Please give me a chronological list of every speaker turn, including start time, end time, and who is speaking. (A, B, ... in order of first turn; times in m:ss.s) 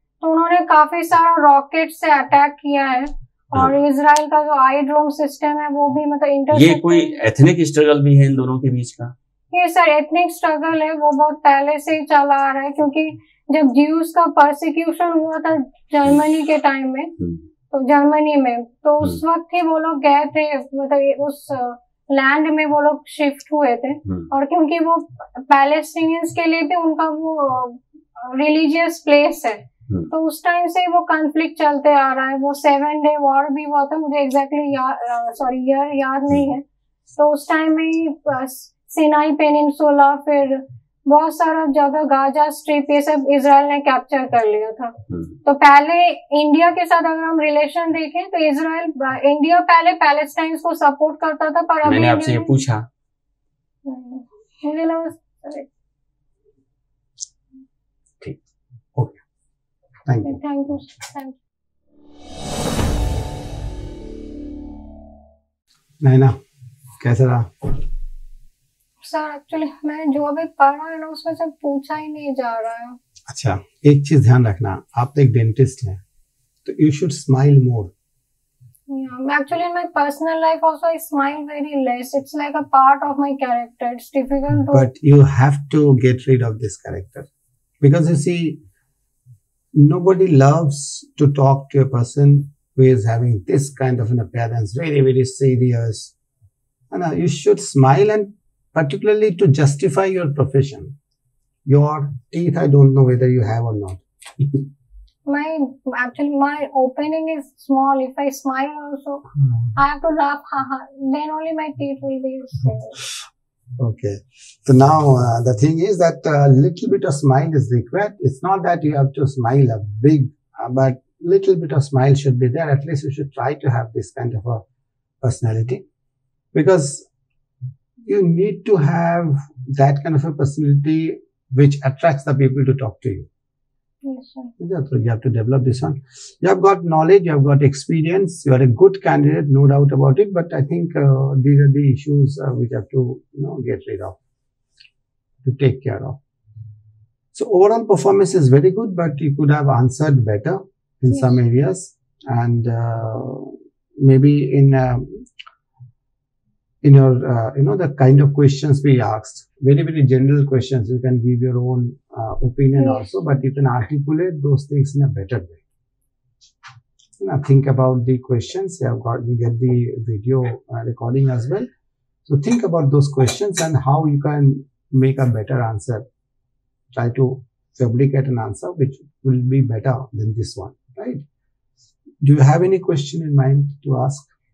0:00.2-0:07.2 A
0:06.5-0:09.1 B
0:09.5-0:17.1 A
0:17.2-0:17.4 B
0:17.7-0:36.6 A
0:37.2-0:52.6 A
0:45.1-0:45.4 B
0:51.8-0:52.8 B
0:53.8-0:55.7 A
1:00.1-1:00.4 C
1:00.2-1:01.4 A
1:06.0-1:06.4 C
1:07.0-1:07.8 C
1:09.0-1:13.0 A
1:13.3-1:16.0 C
1:16.6-1:17.9 C
1:18.9-1:24.9 A
1:24.7-1:27.3 C
1:27.8-1:28.6 C
1:29.8-1:36.1 C
1:36.9-1:40.9 C
1:41.7-1:44.6 C
1:45.3-1:53.0 A
1:53.8-2:04.6 C
2:05.2-2:05.8 C
2:06.5-2:07.1 C
2:08.1-2:13.3 C
2:14.0-2:14.5 A
2:14.6-2:24.2 C
2:25.4-2:26.2 C
2:27.3-2:35.3 C
2:31.1-2:31.4 A
2:36.8-2:45.6 C
2:42.8-2:43.4 A
2:47.2-2:51.7 C
2:52.3-2:56.0 C
2:56.9-3:01.2 C
3:02.2-3:04.3 C